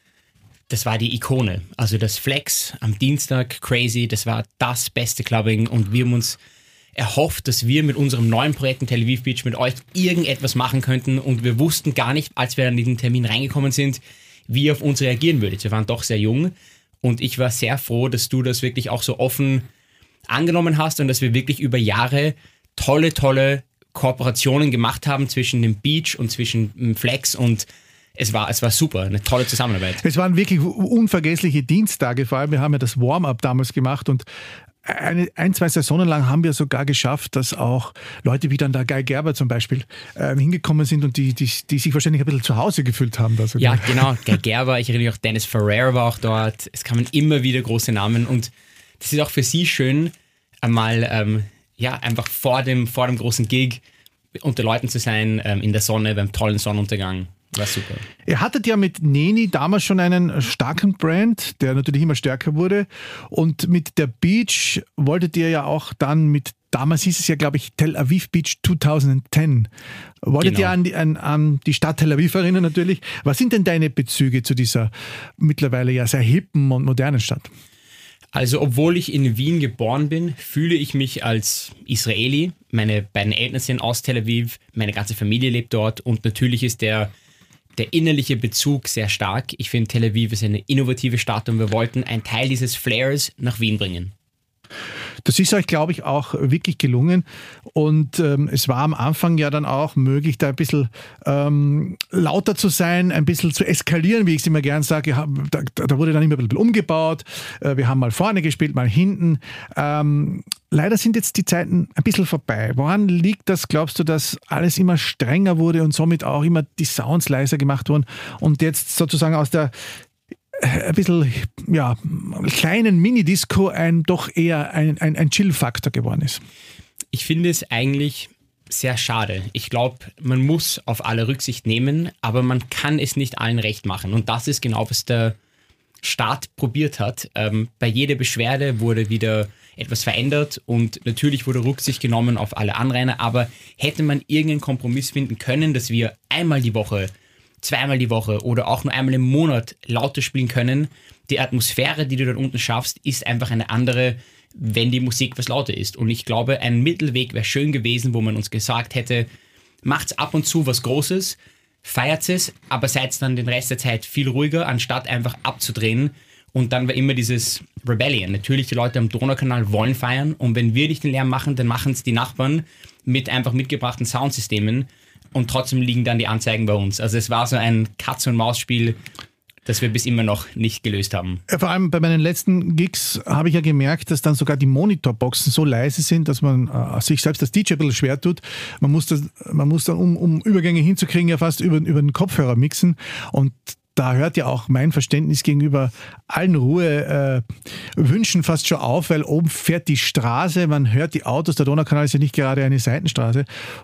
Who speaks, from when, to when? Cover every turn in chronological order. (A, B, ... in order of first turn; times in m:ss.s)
0:00.7-0:06.4 A
0:06.9-0:19.7 A
0:20.3-0:30.0 A
0:30.0-0:34.2 B
0:34.8-0:44.0 B
0:43.6-0:53.8 A
0:54.4-0:58.0 A
0:58.2-1:09.7 B
1:10.2-1:17.5 B
1:10.4-1:10.7 A
1:18.3-1:27.1 A
1:27.8-1:34.1 A
1:35.2-1:59.7 B
2:00.5-2:06.4 B
2:07.1-2:15.4 A
2:16.0-2:39.3 A
2:39.8-2:59.0 A
2:59.6-3:01.4 A
3:01.5-3:23.5 B